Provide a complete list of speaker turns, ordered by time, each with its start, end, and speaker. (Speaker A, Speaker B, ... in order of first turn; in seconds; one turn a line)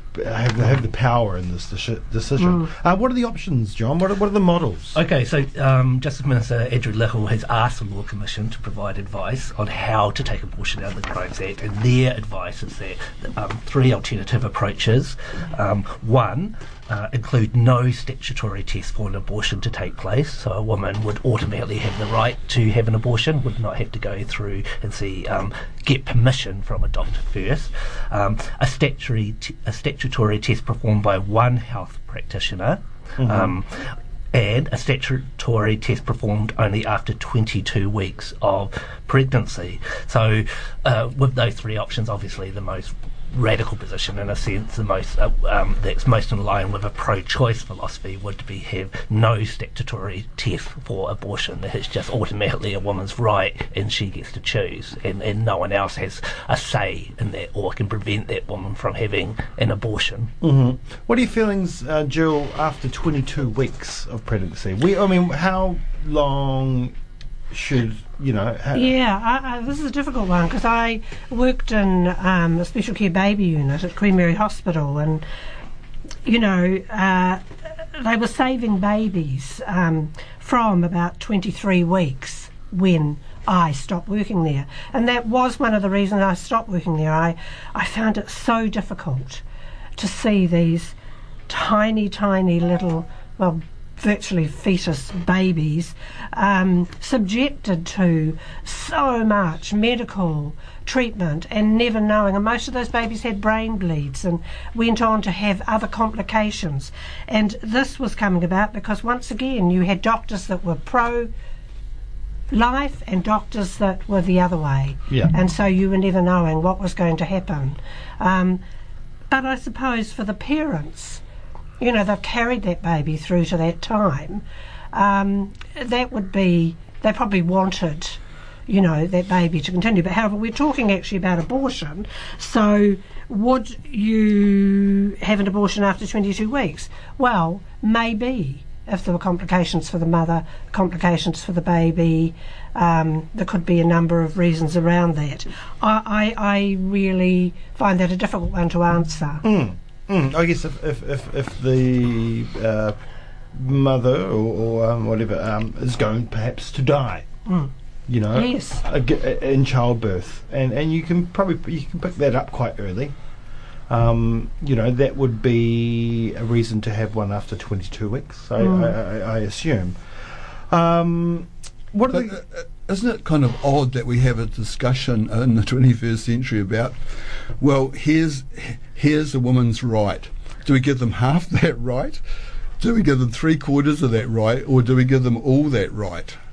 Speaker A: 0.1-5.0
Speaker B: 2.4-2.7
Speaker C: 4.9-60.3
Speaker A: 33.2-33.6
Speaker A: 60.4-66.9
Speaker A: 67.5-68.9
Speaker B: 68.7-75.2
Speaker B: 76.2-77.4
Speaker B: 78.0-89.4
Speaker B: 90.0-90.9
Speaker B: 91.5-111.3
Speaker B: 112.5-118.6
Speaker B: 119.3-121.2
Speaker B: 121.8-124.4
Speaker B: 124.9-149.4
Speaker A: 149.4-153.0
Speaker A: 153.5-157.2
Speaker A: 158.1-163.1
Speaker B: 158.3-158.8
Speaker A: 163.9-172.4
Speaker B: 168.6-168.9
Speaker D: 172.1-182.2
Speaker D: 182.8-186.4